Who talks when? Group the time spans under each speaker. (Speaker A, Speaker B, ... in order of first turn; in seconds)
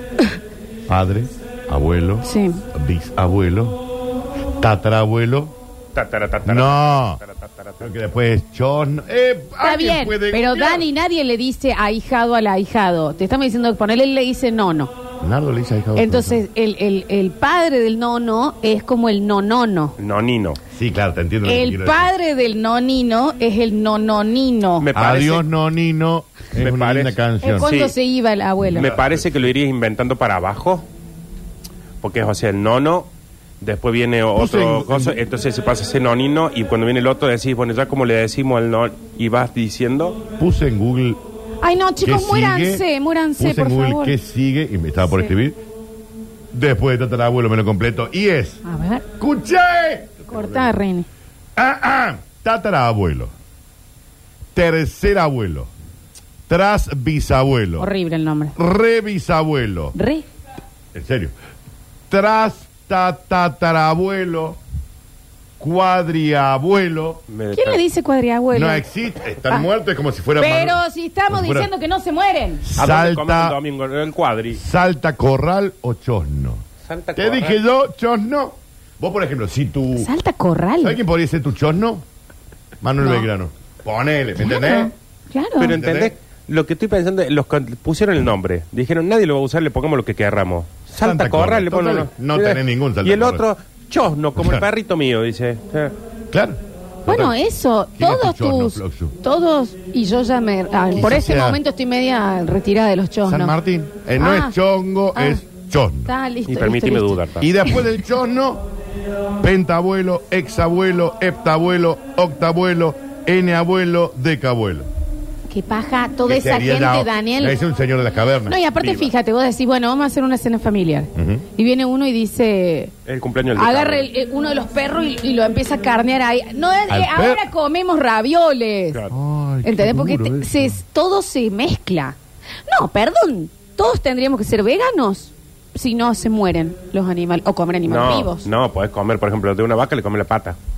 Speaker A: 0.9-3.8, 4.5-5.5, 6.4-7.2, 7.8-10.8, 15.2-16.4, 20.7-22.1, 24.9-27.7, 28.7-29.3, 34.3-35.2, 40.4-41.2, 42.0-42.8, 43.4-45.6, 46.5-48.6, 49.2-50.7, 51.5-53.3, 54.5-55.7, 56.5-57.9, 58.5-59.9, 60.9-61.3, 62.1-64.6, 65.6-67.2, 68.5-71.7, 72.6-73.6, 74.6-76.6, 77.2-80.1, 80.8-82.0, 82.8-84.9, 85.7-86.1, 91.0-93.4, 94.4-94.6, 96.3-97.4, 98.0-99.1, 100.9-101.6, 103.2-106.1, 107.4-108.7, 109.4-114.9, 116.3-118.6, 121.1-121.4, 126.9-127.4, 129.1-130.8
Speaker B: 2.2-2.6, 9.6-14.9, 15.9-19.9, 21.4-24.9, 27.4-28.9, 41.6-44.1, 48.6-49.0, 50.3-51.1, 57.8-58.5, 59.9-60.2, 67.5-68.8, 70.4-72.6, 80.0-81.0, 83.0-83.3, 84.4-85.7, 97.1-103.5, 104.2-104.5, 105.1-105.4, 106.0-107.2, 115.5-117.6, 118.5-122.9, 123.5-129.0, 129.6-138.5
Speaker C: 5.9-7.9, 20.0-20.6, 24.8-25.5, 26.5-27.9, 28.7-30.8, 32.0-33.1, 33.6-40.2, 67.3-67.8, 72.8-74.6, 76.8-77.6, 85.6-95.9, 106.5-107.5, 118.8-119.1, 123.0-124.1, 137.9-140.6